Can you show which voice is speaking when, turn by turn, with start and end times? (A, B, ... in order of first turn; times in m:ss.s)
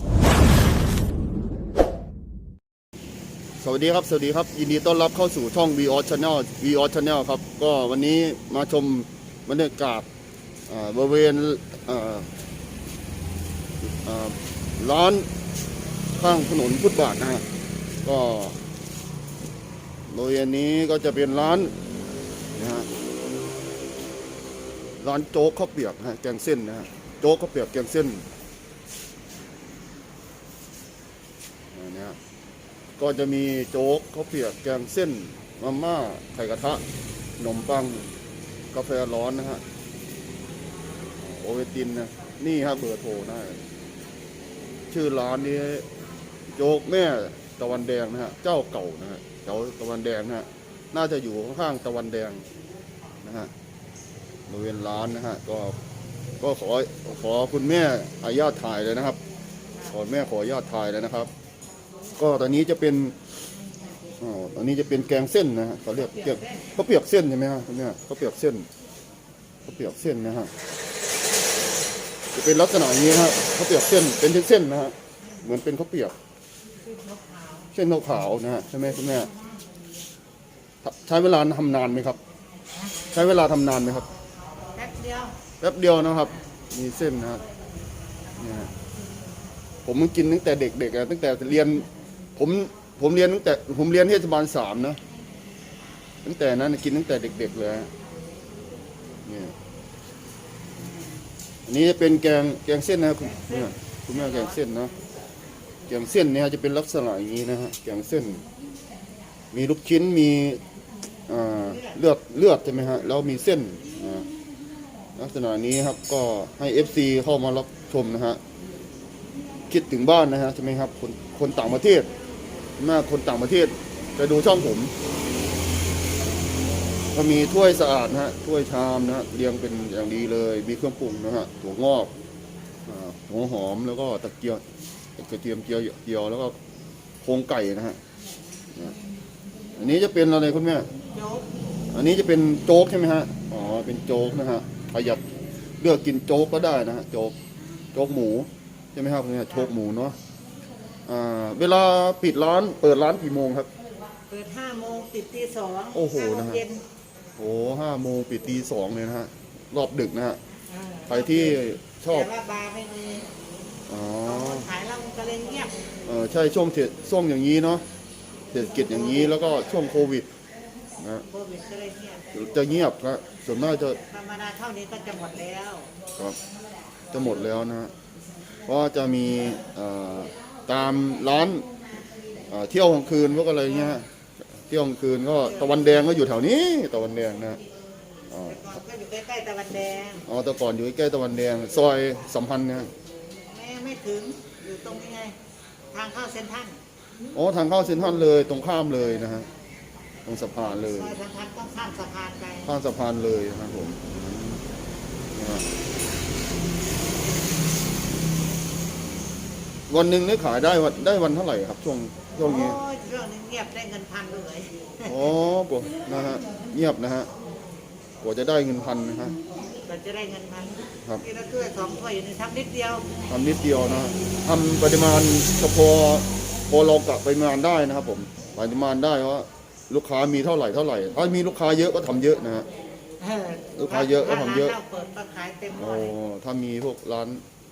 0:03.6-0:10.1 A
0:10.7-0:12.3 A
0:13.8-0:15.3 A
0:16.2-0:17.4 A
0:18.0-0:18.6 A
0:20.1-0:21.7 A
0:22.6-0:22.9 A
0:25.0-0:28.2 A
0:31.7-0:32.2 A
0:33.0-0:36.8 A
0:37.4-0:38.1 A
0:38.7-0:39.6 A
0:41.2-0:43.6 A
0:44.9-0:45.9 A
0:46.6-0:52.4 A
0:53.2-0:53.5 A
0:54.5-0:55.8 A
0:56.4-0:59.2 A
0:59.9-1:01.3 A
1:02.2-1:03.2 A
1:04.2-1:08.7 A
1:06.0-1:06.7 B
1:09.7-1:10.5 A
1:12.3-1:16.2 A
1:16.8-1:17.7 B
1:17.7-1:19.3 A
1:20.8-1:22.2 A
1:23.1-1:24.1 A
1:24.7-1:25.4 B
1:25.6-1:27.4 A
1:28.4-1:28.7 A
1:29.8-1:35.0 A
1:36.2-1:37.9 A
1:39.2-1:39.5 A
1:41.7-1:44.9 A
1:43.2-1:44.6 B
1:45.9-1:48.4 A
1:49.5-1:50.6 A
1:51.3-1:54.3 A
1:51.6-1:52.0 B
1:55.2-1:58.4 A
1:59.7-2:02.1 A
2:02.8-2:04.9 A
2:07.1-2:12.1 A
2:12.9-2:14.6 A
2:15.2-2:16.6 A
2:17.2-2:18.0 A
2:19.7-2:20.9 A
2:21.1-2:21.5 B
2:21.9-2:27.4 A
2:27.9-2:30.2 A
2:31.1-2:33.7 A
2:34.3-2:36.8 B
2:35.9-2:36.6 A
2:37.4-2:40.4 A
2:40.7-2:41.6 B
2:41.1-2:42.3 A
2:42.1-2:43.4 B
2:43.9-2:44.7 A
2:44.2-2:45.8 B
2:46.0-2:47.8 A
2:48.5-2:50.3 A
2:51.0-2:51.2 A
2:51.3-2:52.3 B
2:52.3-2:54.0 A
2:54.1-2:55.9 B
2:57.1-2:57.9 A
2:58.7-3:01.7 A
3:02.5-3:07.6 A
3:05.6-3:05.9 B
3:08.3-3:08.7 A
3:08.5-3:10.3 B
3:10.2-3:12.9 A
3:13.5-3:15.4 B
3:15.9-3:16.8 B
3:17.3-3:19.5 A
3:20.3-3:21.2 A
3:20.8-3:22.7 B
3:22.6-3:24.6 A
3:25.3-3:25.6 A
3:29.9-3:32.8 A
3:32.4-3:35.2 B
3:35.0-3:37.3 A
3:38.2-3:39.4 A
3:39.8-3:43.1 B
3:43.3-3:52.7 A
3:53.2-3:56.2 B
3:53.7-3:54.8 A
3:55.8-3:57.4 A